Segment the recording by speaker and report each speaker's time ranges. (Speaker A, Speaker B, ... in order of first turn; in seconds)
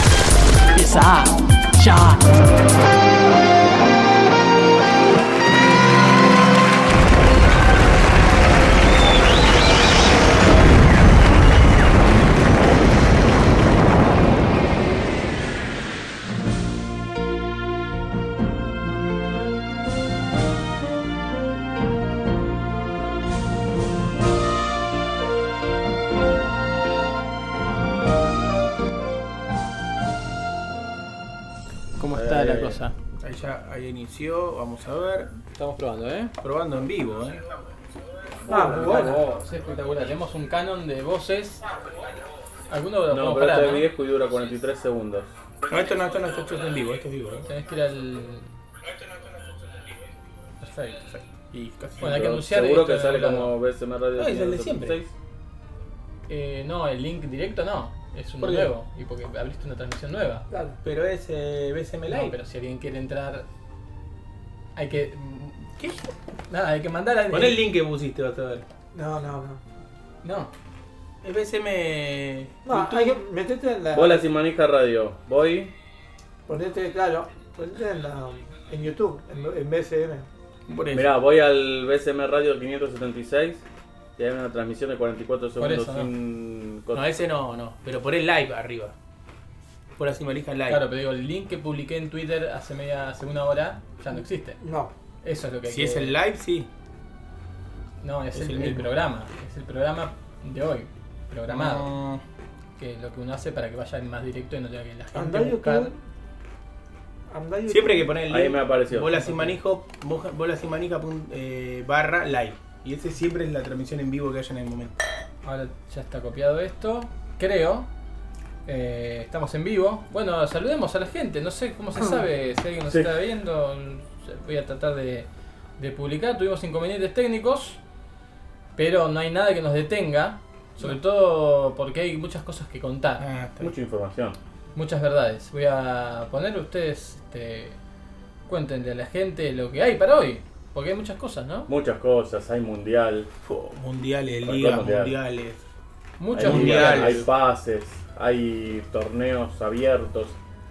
Speaker A: 0.7-2.2, 32.0-32.9, 35.5-36.3, 38.5-41.6, 42.7-43.9, 47.4-48.5, 50.6-51.2, 52.0-53.5, 56.3-60.5, 62.1-63.5, 64.8-65.8, 66.5-67.6, 70.2-70.5, 85.6-86.1, 90.7-94.6, 95.2-96.1, 98.0-101.9, 102.8-105.9, 109.2-109.5, 115.4-117.9, 118.7-127.8, 128.8-133.2, 134.7-137.8, 138.5-141.7, 146.2-147.2
Speaker B: 32.1-32.8, 43.1-45.3, 52.0-55.1, 73.9-75.7, 80.9-83.6, 84.2-87.0, 108.3-109.2, 133.6-134.4, 141.7-143.3, 144.4-145.2, 146.3-150.4
Speaker C: 33.2-35.3, 36.4-37.5, 45.7-47.5, 51.1-52.1, 54.1-55.0, 58.4-58.7, 60.8-62.3, 67.3-68.7, 71.2-73.2, 80.7-81.2, 86.9-88.9, 90.0-90.8, 95.7-96.7, 98.3-98.9, 101.5-102.2, 107.7-115.0, 133.2-133.7, 143.4-145.6, 146.3-147.3
Speaker D: 38.5-39.2, 60.5-60.8, 68.9-69.6, 72.6-74.3, 76.5-80.3, 94.6-94.9, 105.1-106.0, 107.3-108.2